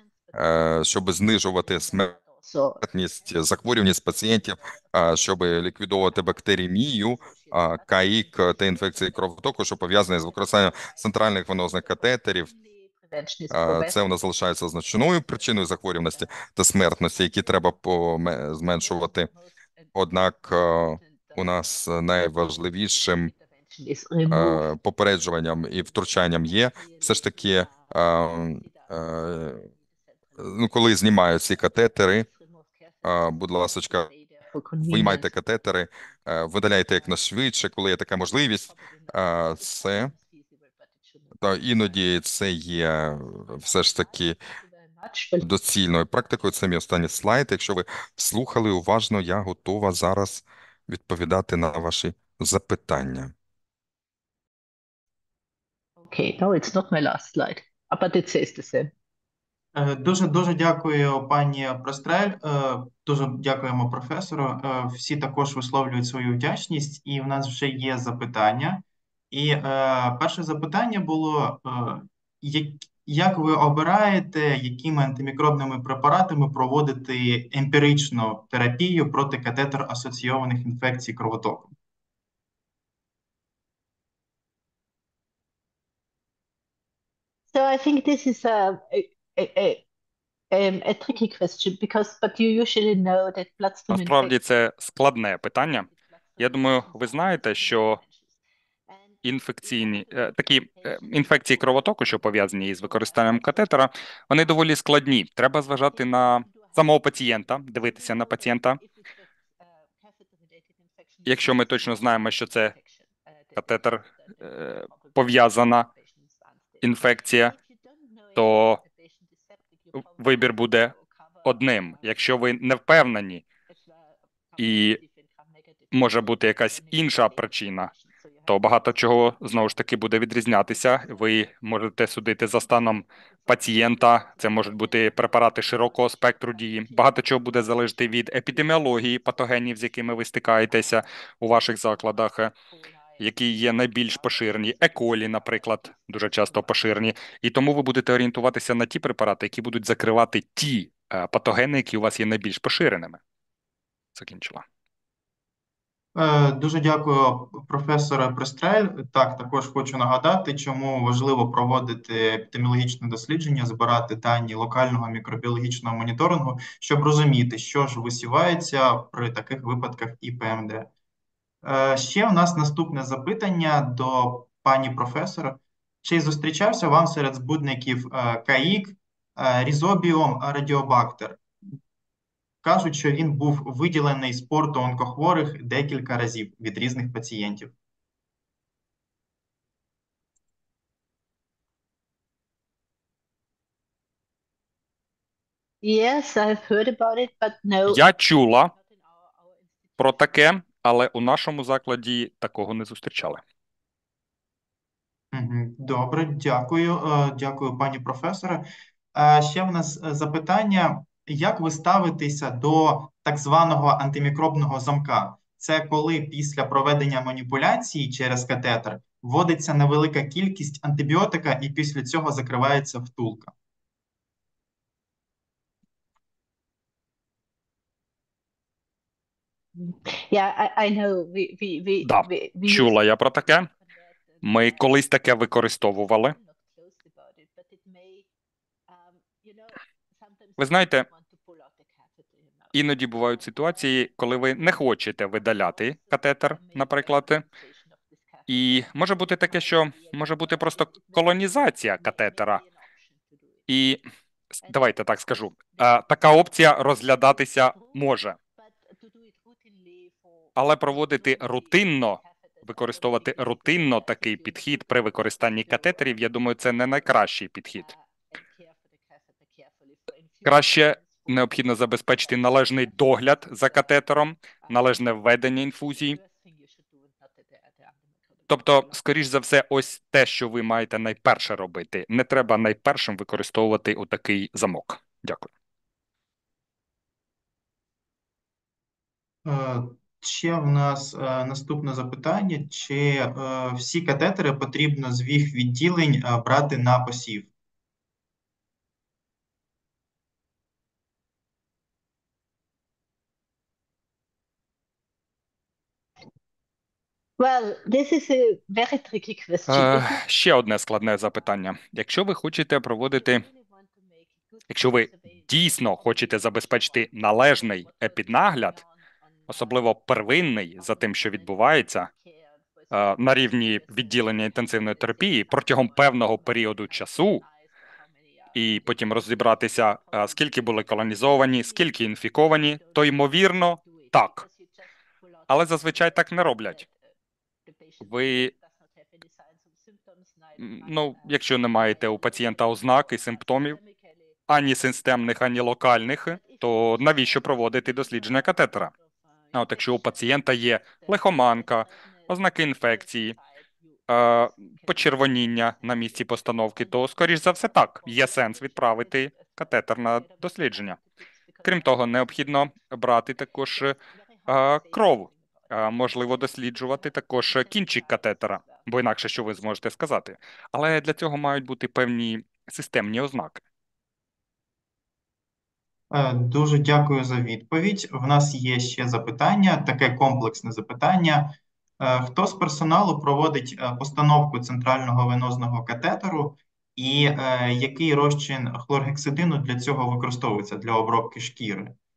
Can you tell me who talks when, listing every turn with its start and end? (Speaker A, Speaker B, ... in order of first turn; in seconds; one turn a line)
Speaker A: 0.3-2.2
Speaker B: 1.8-2.8
Speaker A: 2.8-12.5
Speaker B: 4.0-5.0
Speaker B: 6.1-9.3
Speaker B: 9.9-14.0
Speaker A: 13.5-19.3
Speaker B: 16.1-16.5
Speaker B: 17.2-17.7
Speaker B: 18.8-19.9
Speaker A: 19.9-23.3
Speaker B: 20.7-21.4
Speaker B: 22.6-24.7
Speaker A: 24.3-29.6
Speaker B: 26.8-27.9
Speaker B: 28.6-29.0
Speaker B: 29.7-30.5
Speaker A: 30.4-32.3
Speaker B: 32.0-35.4
Speaker A: 33.0-34.1
Speaker A: 34.8-40.1
Speaker B: 38.7-41.9
Speaker A: 41.4-44.4
Speaker B: 43.1-45.5
Speaker A: 45.4-53.3
Speaker B: 56.0-58.9
Speaker C: 59.8-81.7
Speaker B: 87.5-89.8
Speaker B: 90.5-94.3
Speaker D: 93.9-98.0
Speaker B: 95.9-98.3
Speaker B: 98.9-101.7
Speaker D: 99.2-108.8
Speaker B: 102.8-103.7
Speaker B: 105.9-106.8
Speaker B: 107.8-115.2
Speaker D: 111.3-112.7
Speaker D: 113.6-115.9
Speaker B: 115.8-116.8
Speaker D: 116.8-117.5
Speaker B: 117.4-122.2
Speaker D: 118.4-118.8
Speaker D: 119.9-123.4
Speaker B: 123.7-128.6
Speaker D: 124.6-125.0
Speaker D: 125.9-127.9
Speaker D: 128.5-142.6
Speaker B: 133.5-139.4
Speaker B: 140.7-141.0
Speaker B: 141.5-146.7
Speaker D: 143.2-153.2
Speaker D: 154.2-154.7
Speaker C: 156.2-170.9
Speaker C: 171.6-181.4
Speaker C: 182.6-187.7
Speaker B: 195.8-198.1
Speaker D: 197.9-198.7
Speaker B: 198.7-200.1
Speaker D: 200.0-203.4
Speaker C: 205.3-223.5
Speaker B: 229.8-232.9
Speaker D: 232.0-233.7
Speaker B: 233.9-234.4
Speaker D: 234.4-236.3
Speaker B: 236.3-238.3
Speaker B: 238.9-243.8
Speaker D: 240.6-241.1
Speaker D: 242.7-247.4
Speaker B: 245.7-253.7
Speaker D: 248.5-252.6
Speaker D: 253.7-254.0
Speaker D: 254.6-258.4
Speaker B: 254.6-254.9
Speaker B: 257.2-258.0
Speaker B: 258.6-266.1
Speaker D: 260.6-267.9
Speaker B: 267.8-271.5
Speaker D: 270.4-276.2
Speaker B: 272.2-272.9
Speaker B: 276.0-278.9
Speaker D: 278.5-285.5
Speaker C: 289.4-297.5
Speaker B: 307.4-310.2
Speaker D: 309.7-313.5
Speaker B: 313.1-317.3
Speaker D: 314.7-318.8
Speaker B: 318.0-318.9
Speaker D: 319.5-322.1
Speaker B: 320.8-321.5
Speaker B: 322.1-328.7
Speaker D: 322.9-327.4
Speaker D: 328.6-334.4
Speaker B: 331.4-331.8
Speaker B: 332.8-333.3
Speaker B: 333.9-336.9
Speaker D: 335.5-336.9
Speaker B: 337.7-344.4
Speaker D: 338.0-338.5
Speaker D: 340.6-343.8
Speaker D: 344.5-348.9
Speaker B: 346.4-348.6
Speaker B: 349.5-350.1
Speaker D: 349.5-353.4
Speaker B: 351.0-352.1
Speaker B: 352.9-353.4
Speaker D: 354.1-361.0
Speaker B: 354.5-356.2
Speaker B: 358.1-359.4
Speaker B: 360.4-362.6
Speaker D: 361.6-373.6
Speaker B: 364.4-368.8
Speaker C: 376.1-392.0